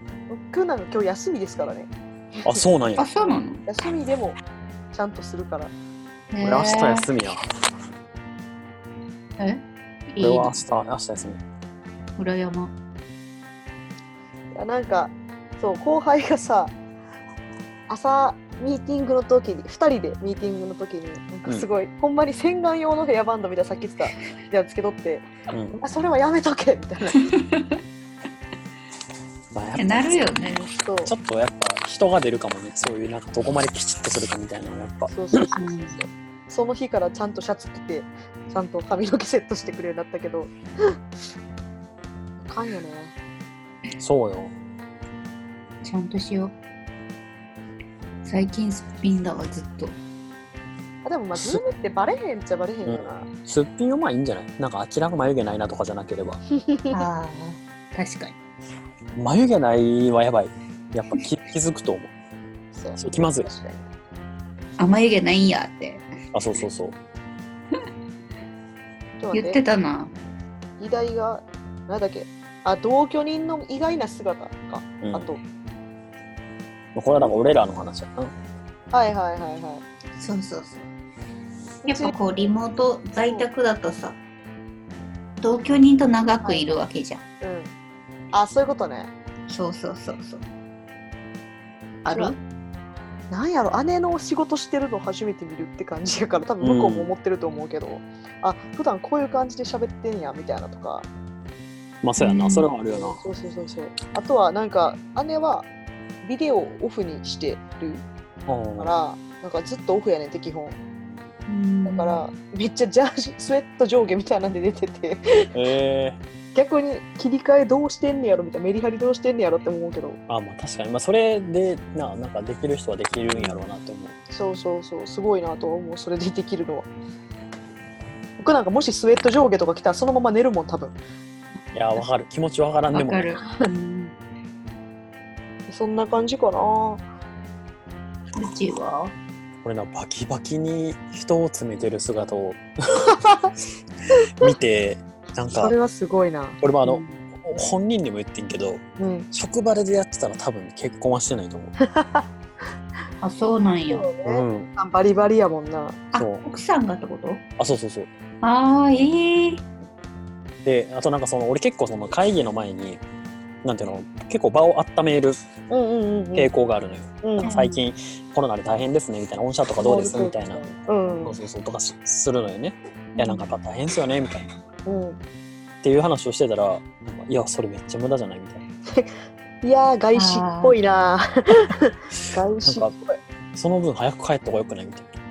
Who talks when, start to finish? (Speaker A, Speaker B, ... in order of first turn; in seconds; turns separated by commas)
Speaker A: 0.3-2.6, Speaker B: 2.4-3.1, Speaker C: 3.0-3.6, Speaker A: 3.2-4.4, Speaker A: 4.9-5.7, Speaker C: 6.3-7.1, Speaker B: 6.4-7.4, Speaker C: 9.4-10.6, Speaker B: 10.2-11.4, Speaker C: 12.2-12.7, Speaker A: 14.5-16.7, Speaker A: 17.9-27.3, Speaker B: 25.5-25.8, Speaker C: 27.1-27.8, Speaker B: 29.5-30.5, Speaker C: 29.8-30.6, Speaker A: 30.8-31.1, Speaker B: 31.0-35.4, Speaker A: 35.1-40.9, Speaker C: 35.5-36.0, Speaker A: 42.4-43.1, Speaker B: 44.0-44.5, Speaker C: 45.8-46.5, Speaker C: 48.2-50.0, Speaker A: 51.0-53.3, Speaker B: 52.8-56.4, Speaker A: 56.5-56.9, Speaker C: 56.9-58.4, Speaker B: 59.1-62.1, Speaker A: 62.7-63.9, Speaker B: 63.0-63.5, Speaker C: 64.8-66.0, Speaker B: 66.3-67.0, Speaker A: 69.2-69.6, Speaker C: 69.3-70.1, Speaker A: 70.8-75.4, Speaker B: 75.0-75.3, Speaker B: 76.9-78.3, Speaker A: 78.9-79.8, Speaker C: 80.2-80.9, Speaker A: 81.8-82.2, Speaker C: 81.9-84.2, Speaker C: 85.4-87.2, Speaker A: 87.4-87.7, Speaker A: 88.3-89.1, Speaker C: 89.5-90.4, Speaker C: 92.0-92.4, Speaker A: 93.3-101.1, Speaker B: 96.6-97.1, Speaker B: 102.0-103.2, Speaker C: 102.2-102.7, Speaker A: 102.9-105.7, Speaker A: 106.2-108.0, Speaker B: 108.5-108.9, Speaker A: 108.8-110.8, Speaker C: 111.5-112.2, Speaker A: 111.8-115.5, Speaker B: 115.5-116.2, Speaker A: 116.5-120.2, Speaker B: 120.3-124.1, Speaker A: 124.3-126.9, Speaker A: 128.4-130.9, Speaker B: 131.7-133.3, Speaker C: 132.9-134.1, Speaker A: 135.7-137.0, Speaker C: 138.3-139.2, Speaker B: 139.6-143.1, Speaker A: 143.1-143.5, Speaker B: 144.4-145.7, Speaker A: 145.6-146.6, Speaker B: 146.6-148.8, Speaker C: 146.8-147.2, Speaker A: 149.0-149.3, Speaker B: 149.3-151.7, Speaker A: 151.8-152.3, Speaker C: 153.2-154.1, Speaker A: 153.9-156.0, Speaker B: 154.2-154.7, Speaker C: 156.1-157.4, Speaker B: 156.2-156.4, Speaker B: 157.6-158.1, Speaker C: 158.4-159.6, Speaker B: 160.6-163.0, Speaker B: 163.6-165.4, Speaker A: 165.7-166.5, Speaker B: 166.3-170.7, Speaker A: 167.2-167.5, Speaker C: 167.4-167.8, Speaker A: 169.8-171.3, Speaker B: 171.2-174.5, Speaker C: 173.2-173.4, Speaker A: 174.8-175.2, Speaker B: 175.8-178.6, Speaker A: 178.9-183.2, Speaker C: 180.1-180.8, Speaker B: 182.6-182.9, Speaker B: 183.5-185.1